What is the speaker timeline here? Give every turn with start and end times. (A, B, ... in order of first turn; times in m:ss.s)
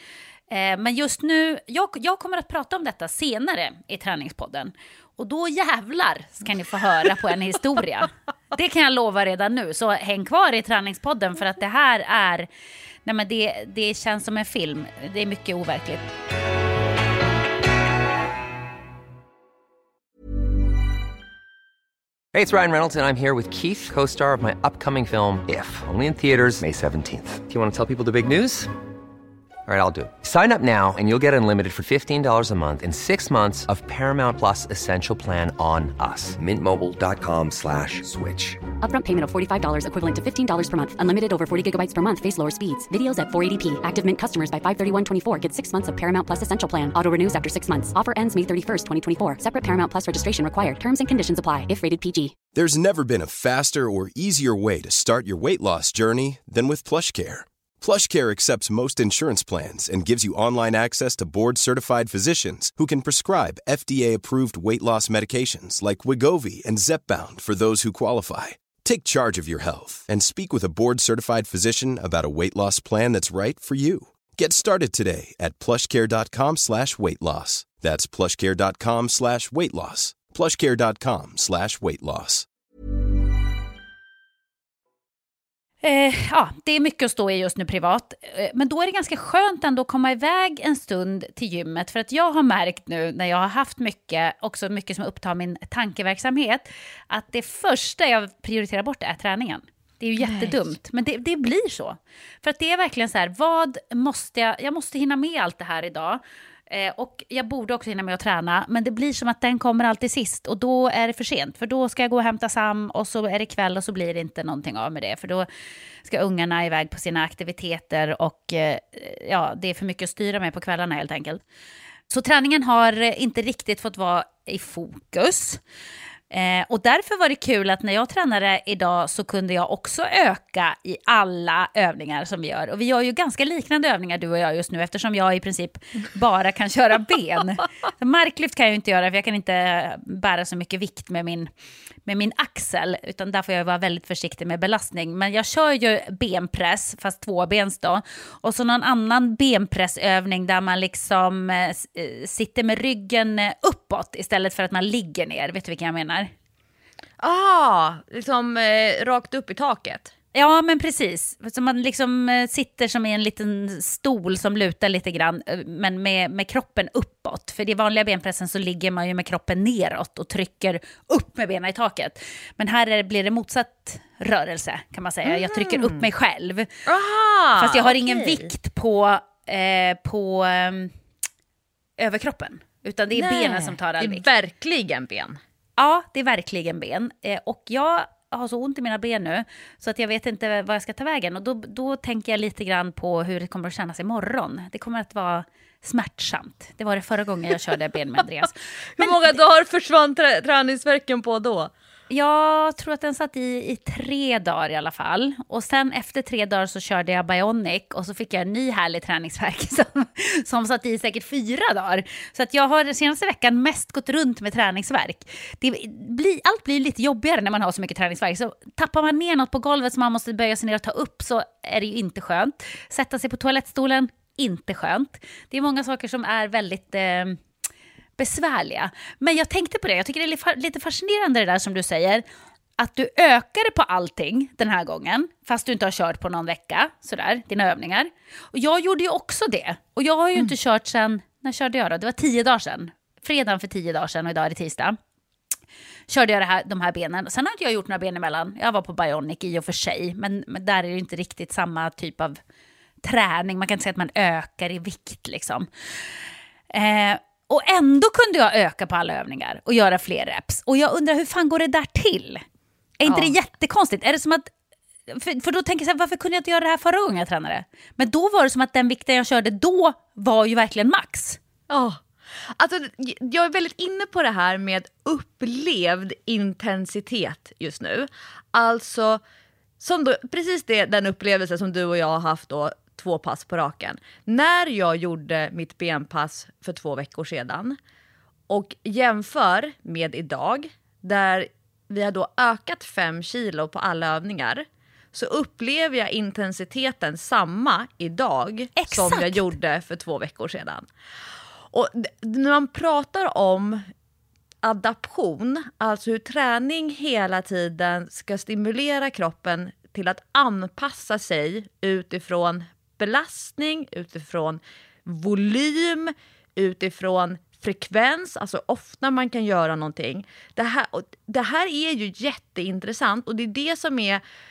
0:00.5-0:12.5 A
0:13.0-0:16.1 A
0:22.3-0:28.7 B
0:29.7-0:38.6 B
0:38.8-0:52.3 C
0:52.6-1:22.5 D
1:25.8-1:55.5 A
1:40.2-1:40.7 E
1:56.0-2:01.4 A
2:02.1-2:05.6 A
2:06.3-2:21.5 A
2:22.1-2:36.3 A
2:37.2-2:40.1 E
2:40.3-2:56.7 A
2:55.2-2:56.1 E
2:56.9-2:58.5 E
2:57.6-3:00.9 A
3:02.0-3:04.3 A
3:03.1-3:05.4 E
3:05.8-3:19.4 A
3:19.0-3:21.7 E
3:22.1-3:47.4 A
3:48.2-3:52.2 A
3:52.8-4:05.0 A
4:06.1-4:12.4 A
4:13.0-4:15.7 A
4:16.7-4:22.4 A
4:23.0-4:24.5 A
4:23.0-4:23.4 E
4:25.1-4:31.4 A
4:31.7-4:39.2 E
4:39.8-4:47.8 E
4:48.5-5:00.9 E
4:58.8-4:59.5 A
5:01.7-5:03.9 E
5:04.6-5:24.2 E